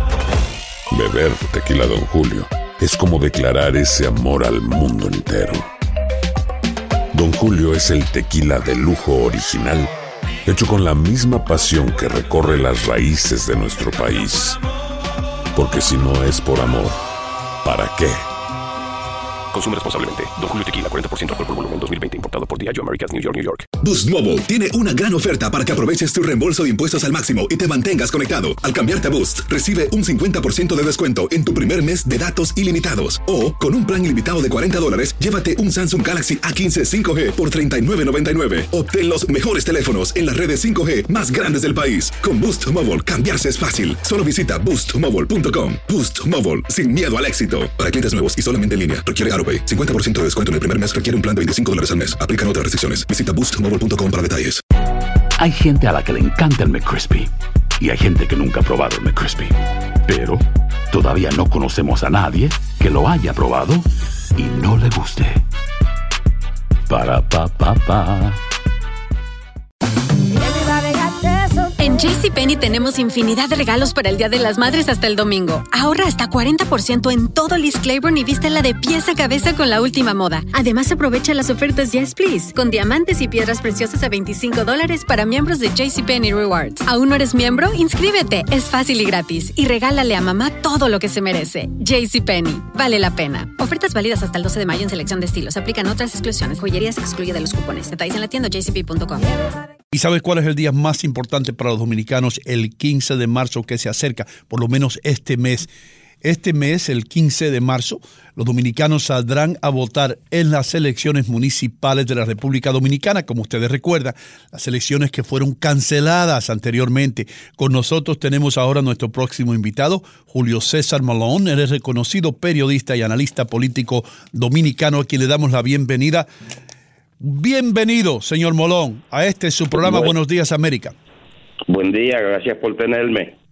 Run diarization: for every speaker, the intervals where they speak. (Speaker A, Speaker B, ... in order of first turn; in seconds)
Speaker A: 0.9-5.7, 7.1-9.9, 10.4-14.6, 15.5-17.0, 17.6-18.2
Speaker B: 19.5-23.6
Speaker C: 23.8-54.6
Speaker D: 55.4-65.4, 66.9-68.4
Speaker E: 71.8-99.3
Speaker F: 99.9-105.7, 106.2-126.3, 127.2-130.9
Speaker G: 129.7-130.1, 131.7-133.3